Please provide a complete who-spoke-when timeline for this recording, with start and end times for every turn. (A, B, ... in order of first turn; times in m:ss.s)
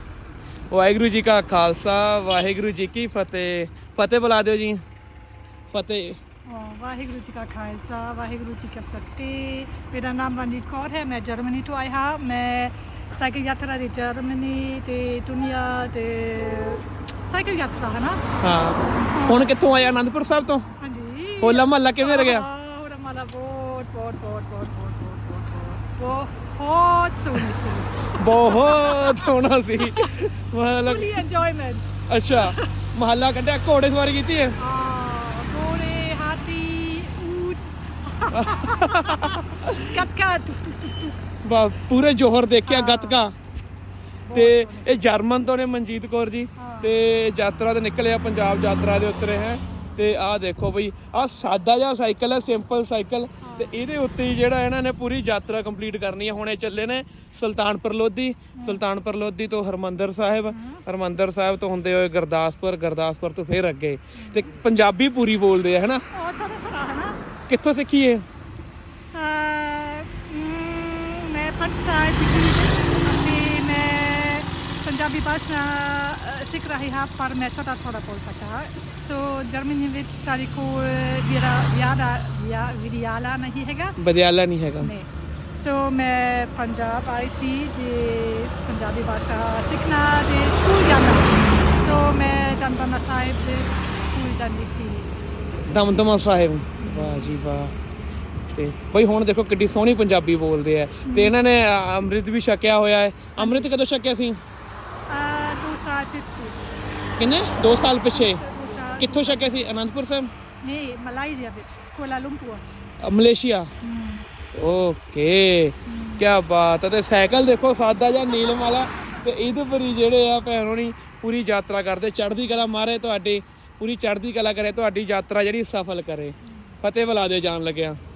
0:00.7-0:04.8 A
0:05.7-0:06.2 A
0:06.5-0:18.2 B
0:18.4-0:20.7 A
0:19.1-0:19.5 B
0:20.8-0:30.2 B
0:21.4-0:22.5 A
0:28.2-0:31.2 A
0:30.8-0:32.7 B
0:32.1-0:34.6 A
0:34.6-0:41.2 B
0:38.3-0:39.9 A
0:41.4-0:43.3 A
0:42.6-0:43.2 B
0:44.2-0:45.0 B
0:44.3-1:06.0 A
0:46.6-0:47.0 B
0:49.7-0:49.9 B
0:53.4-0:53.8 B
0:58.5-0:58.8 B
1:00.5-1:00.8 B
1:04.2-1:04.5 B
1:06.1-1:07.2 B
1:07.5-1:08.2 A
1:09.1-1:24.0 B
1:24.0-1:24.9 A
1:24.8-1:35.1 B
1:35.7-1:37.7 A
1:36.8-1:37.3 B
1:38.5-1:44.4 A
1:41.0-1:41.3 B
1:43.4-1:43.7 B
1:45.1-1:46.7 B
1:47.2-1:48.4 A
1:48.0-1:49.6 B
1:49.0-1:50.3 A
1:50.6-1:52.6 B
1:53.0-1:53.7 A
1:53.8-1:54.2 B
1:54.5-2:08.0 A
1:55.8-1:56.2 B